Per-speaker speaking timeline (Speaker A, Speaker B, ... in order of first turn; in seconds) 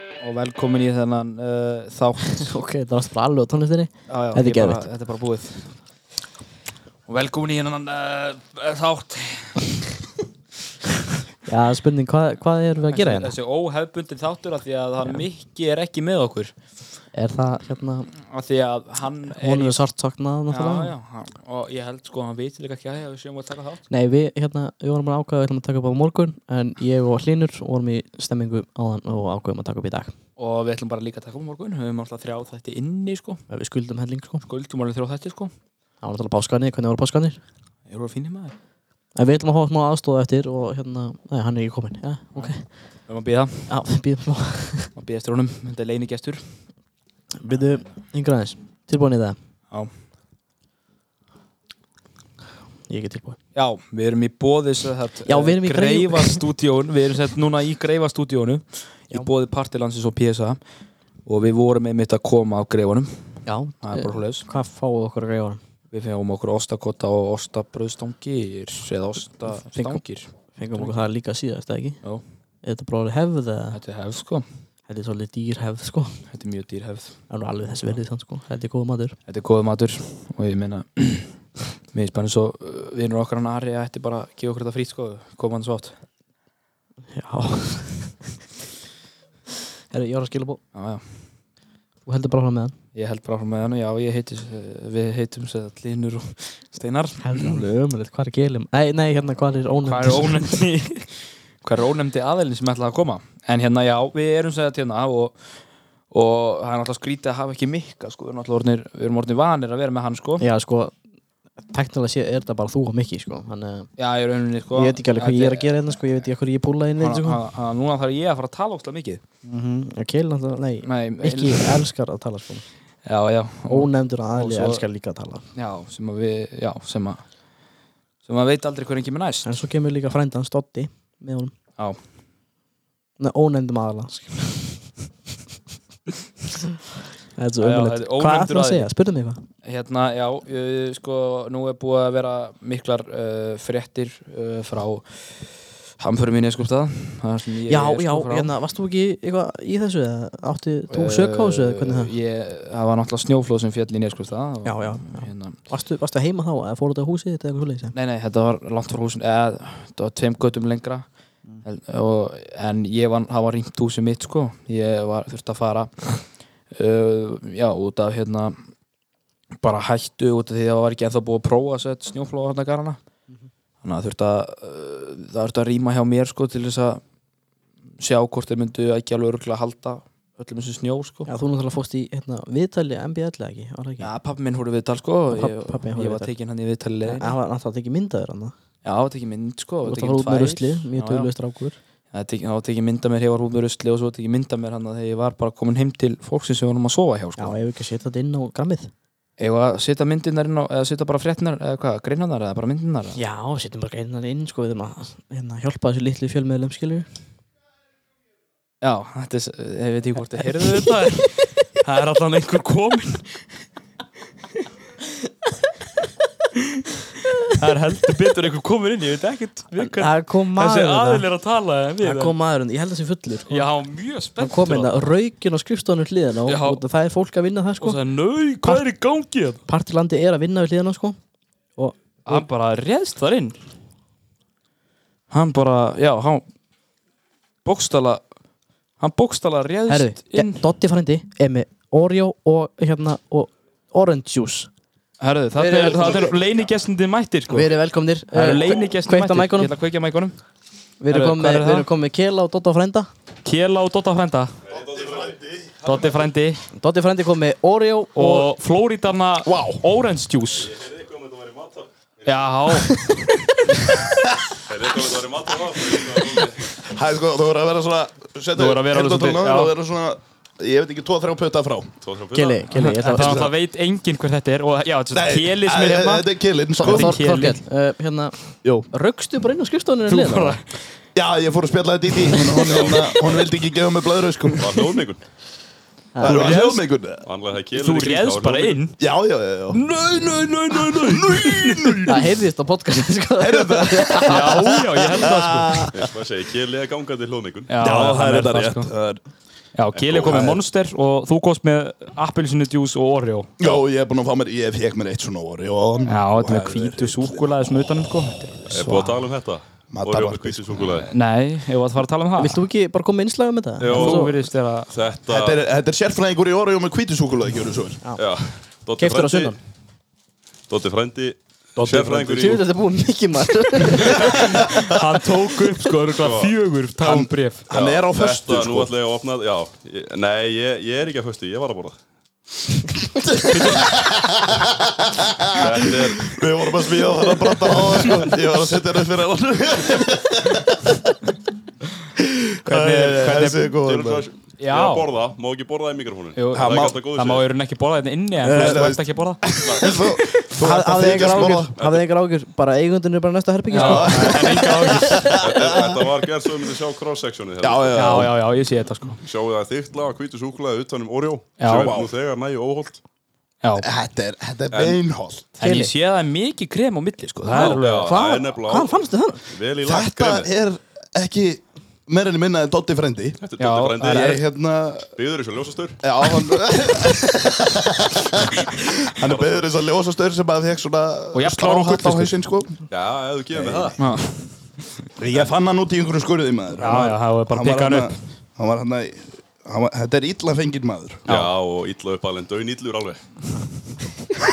Speaker A: 0.2-2.5, 4.1-5.7, 7.1-9.8, 12.9-16.5, 18.3-19.8, 20.5-23.8, 30.4-33.4, 34.4-35.5, 37.9-38.5, 43.1-43.7, 45.0-46.4, 53.5-60.6, 61.2-63.1, 63.8-64.5, 65.9-70.9, 73.7-74.4, 76.3-77.2, 79.3-81.3, 81.9-86.0, 90.7-91.2, 92.9-97.6, 99.8-105.4, 106.1-110.4, 114.0-115.9, 117.0-119.2, 120.8-121.8, 123.0-124.8, 125.5-127.2, 128.2-129.5, 137.6-138.9, 139.6-145.1, 146.0-148.5, 150.9-155.6, 157.9-161.1, 161.6-168.6, 169.6-173.0, 173.8-177.0, 178.0-181.3, 184.0-187.3, 188.8-191.3, 192.1-197.5, 199.4-203.2, 208.8-213.4, 217.5-222.3, 223.5-225.0, 226.4-226.8, 227.8-229.6, 232.2-233.6, 235.3-236.4, 237.6-238.2, 239.0-240.6, 245.2-247.7, 248.3-250.3, 251.1-251.9, 253.4-254.6, 255.8-256.6, 258.1-260.7, 262.2-263.5, 268.6-269.7, 272.7-277.6, 280.1-280.6, 286.2-286.8, 287.7-289.0, 289.7-292.3, 294.2-295.9, 297.7-298.9, 299.8-303.5, 306.1-309.1, 310.9-312.6, 313.9-314.9, 324.6-327.7, 342.6-343.7, 344.6-345.1, 346.4-350.4, 353.7-355.4, 357.9-359.2, 361.6-361.9, 363.6-363.9, 365.6-368.1, 373.6-374.4, 381.3-382.3, 384.0-384.4, 386.8-388.2
Speaker B: 2.2-4.8, 11.4-13.3, 17.1-18.1, 19.3-20.9, 23.9-30.1, 33.5-34.4, 36.0-37.4, 39.1-42.6, 43.7-44.9, 47.4-49.4, 52.9-53.4, 55.3-56.4, 63.5-65.6, 69.7-72.0, 72.6-73.8, 74.9-76.2, 77.3-79.2, 87.1-88.2, 89.9-90.6, 92.0-92.7, 97.2-100.6, 110.4-110.9, 111.7-113.9, 114.7-117.4, 119.5-122.6, 123.7-125.4, 129.4-131.5, 133.2-134.8, 137.4-139.4, 147.7-152.1, 154.6-157.9, 181.3-184.1, 185.3-186.3, 187.0-188.5, 189.8-191.8, 197.3-198.9, 203.1-207.1, 210.6-210.9, 219.8-221.3, 222.0-223.7, 224.4-228.0, 229.7-231.2, 231.8-232.4, 239.9-244.7, 245.6-246.3, 247.5-249.7, 251.0-253.1, 256.8-258.5, 262.8-263.2, 272.3-273.5, 276.8-278.4, 278.9-280.6, 286.1-286.6, 292.1-294.8, 312.4-314.3, 319.0-319.6, 321.8-324.8, 350.6-354.7, 365.6-365.9, 367.4-369.4
Speaker C: 254.7-256.1, 260.6-262.3, 264.6-266.6, 272.0-272.7, 282.6-283.4, 284.6-285.2, 287.2-288.8, 295.9-297.7, 299.9-300.5, 308.7-311.1, 313.8-314.3, 314.9-315.6, 318.2-319.5, 320.7-322.6, 324.1-324.4, 326.2-326.5, 327.7-331.9, 335.5-336.4, 343.8-347.4, 351.8-352.0, 355.4-358.3, 359.2-363.0, 364.7-365.0, 367.5-370.5, 373.4-374.4, 375.1-376.0, 379.2-379.6, 382.9-384.0, 391.3-393.2
Speaker D: 259.4-259.8, 266.7-271.9, 273.1-273.5, 275.1-277.2, 281.1-284.7, 286.2-287.2, 289.0-292.2, 293.4-296.1, 297.8-299.2, 300.2-300.6, 303.6-307.4, 309.9-310.8, 315.3-318.0, 321.8-322.6, 327.0-328.9, 333.3-341.2, 342.2-344.3, 346.5-346.9, 348.4-351.7, 353.8-356.4, 357.6-358.4, 361.7-362.1, 363.8-365.6, 369.8-373.4, 374.0-375.1, 376.0-382.8, 383.5-384.0, 385.2-391.3